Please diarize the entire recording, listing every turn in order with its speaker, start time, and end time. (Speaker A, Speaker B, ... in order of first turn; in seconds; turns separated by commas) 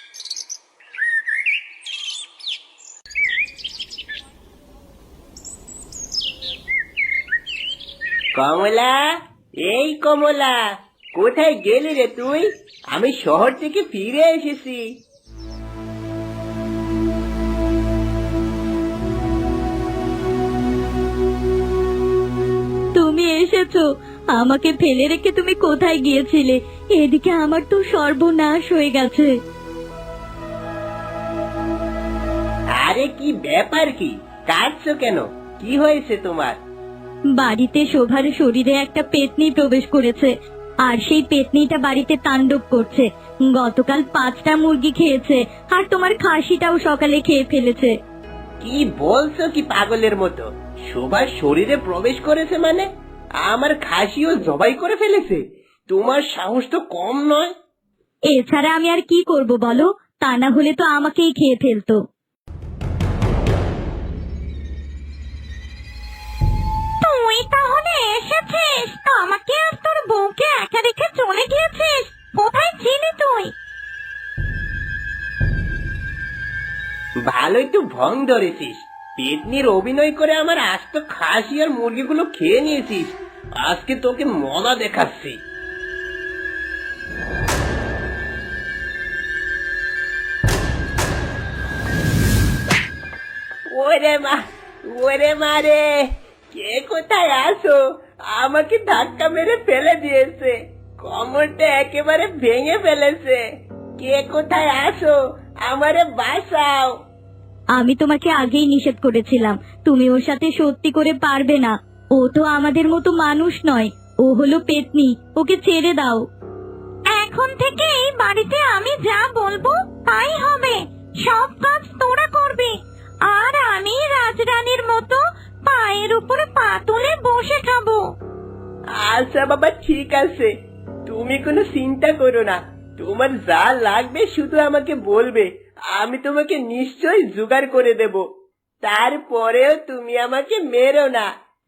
Speaker A: 8.4-9.0, Speaker A: 9.6-10.6, Speaker A: 11.2-14.8, Speaker B: 23.0-29.4, Speaker A: 32.8-36.6, Speaker B: 37.4-40.3, Speaker B: 40.8-48.0, Speaker A: 48.6-52.9, Speaker A: 53.5-57.5, Speaker B: 58.3-62.0, Speaker C: 67.0-73.5, Speaker A: 77.3-85.4, Speaker A: 93.7-103.4, Speaker A: 104.0-106.9, Speaker B: 107.8-116.2, Speaker C: 117.1-122.8, Speaker C: 123.3-128.0, Speaker A: 129.0-130.5, Speaker A: 131.1-138.2, Speaker A: 138.8-141.3